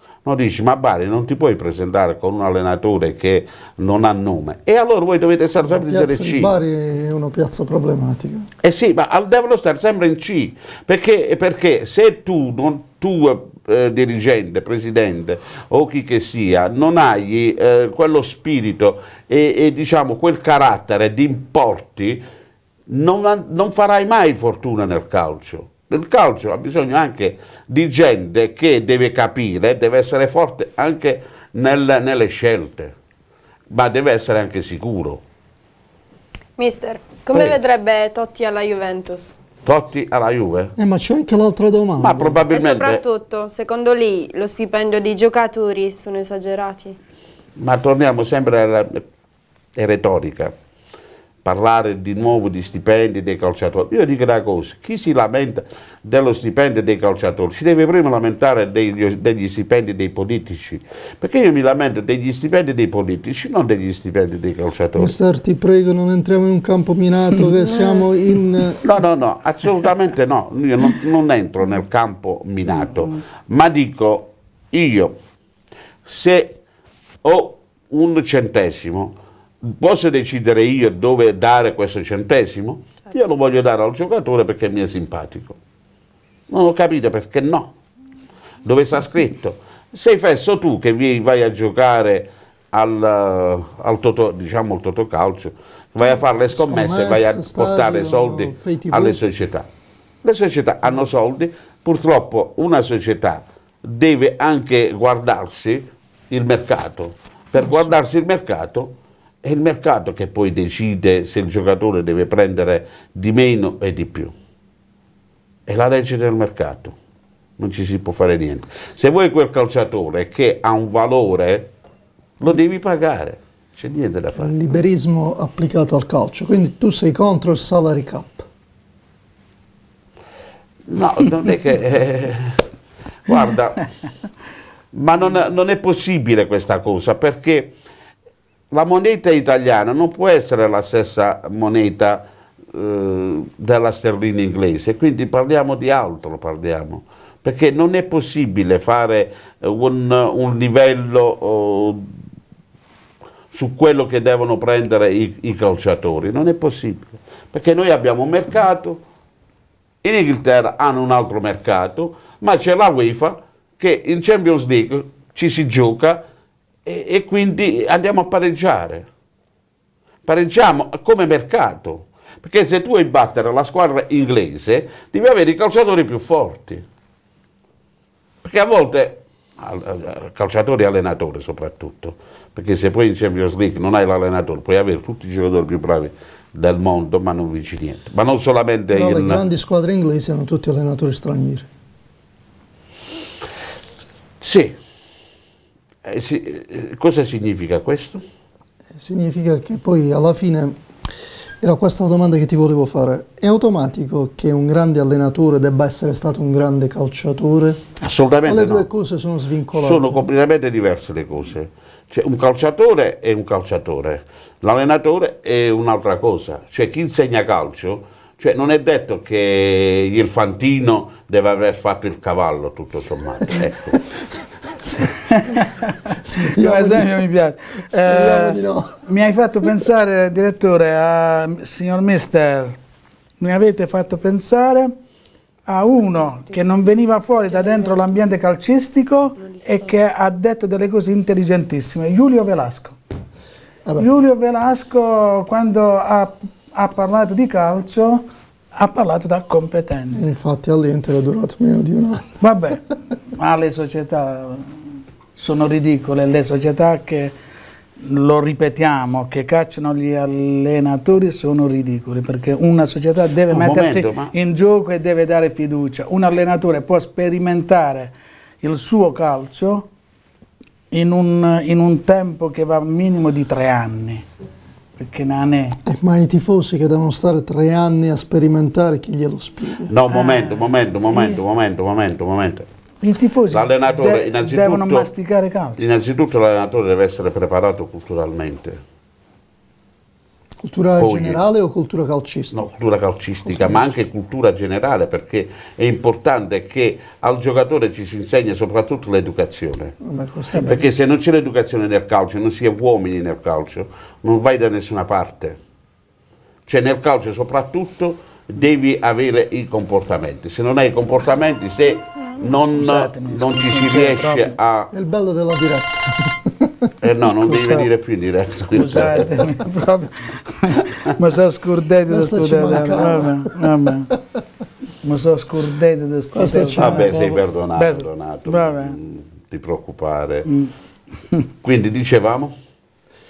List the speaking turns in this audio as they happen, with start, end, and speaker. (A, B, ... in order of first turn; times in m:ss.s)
0:00.2-0:06.5 A
0:05.8-0:08.5 B
0:08.6-0:22.2 A
0:22.9-0:32.9 A
0:33.7-0:35.2 A
0:36.6-0:39.4 C
0:39.7-0:40.7 A
0:40.8-0:42.4 B
0:42.0-0:43.0 A
0:42.5-0:47.0 C
0:47.6-0:49.0 A
0:49.8-0:50.5 A
0:51.4-1:05.1 A
1:05.0-1:08.9 B
1:08.8-1:15.2 A
1:16.0-1:16.6 A
1:17.2-1:25.6 A
1:26.5-1:27.7 A
1:28.6-1:39.7 A
1:36.5-1:39.2 B
1:40.2-1:48.9 A
1:49.4-1:54.3 A
1:55.7-1:57.0 A
1:57.6-2:01.7 A
2:02.4-2:04.5 A
2:04.4-2:08.5 B
2:10.9-2:12.6 A
2:13.3-2:13.9 A
2:14.9-2:17.7 A
2:18.7-2:32.1 A
2:33.5-2:39.0 A
2:40.0-2:46.2 A
2:46.9-2:49.1 A
2:50.3-2:56.8 A
2:58.4-3:09.5 A
3:08.9-3:11.7 B
3:14.4-3:14.8 A
3:16.0-3:18.2 A
3:19.0-3:20.8 B
3:21.6-3:27.8 B
3:28.0-3:28.9 A
3:28.5-3:30.2 B
3:29.7-3:44.0 A
3:43.6-3:45.6 B
3:45.3-3:52.8 D
3:46.2-3:47.2 B
3:47.9-3:49.1 B
3:53.4-3:55.0 D
3:55.7-4:03.0 D
4:04.0-4:08.2 D
4:08.8-4:10.2 D
4:10.1-4:12.4 B
4:12.4-4:14.7 D
4:15.4-4:17.3 D
4:18.0-4:29.9 D
4:23.5-4:24.3 A
4:30.9-4:34.2 D
4:35.0-4:35.8 D
4:35.8-4:39.9 B
4:39.9-4:42.7 A
4:40.1-4:41.4 D
4:43.0-4:45.8 D
4:43.5-4:45.1 A
4:45.8-4:48.8 A
4:50.6-4:52.7 B
4:51.0-4:51.4 A
4:52.5-4:59.9 A
4:53.5-4:53.8 B
5:00.0-5:00.8 B
5:00.6-5:05.6 A
5:06.7-5:14.9 A
5:12.5-5:14.5 D
5:14.9-5:16.9 B
5:17.0-5:19.5 A
5:17.5-5:17.9 D
5:18.7-5:24.1 D
5:22.1-5:23.6 B
5:25.0-5:29.0 D
5:26.3-5:27.4 B
5:26.8-5:30.5 A
5:30.5-5:30.7 D
5:31.6-5:32.5 A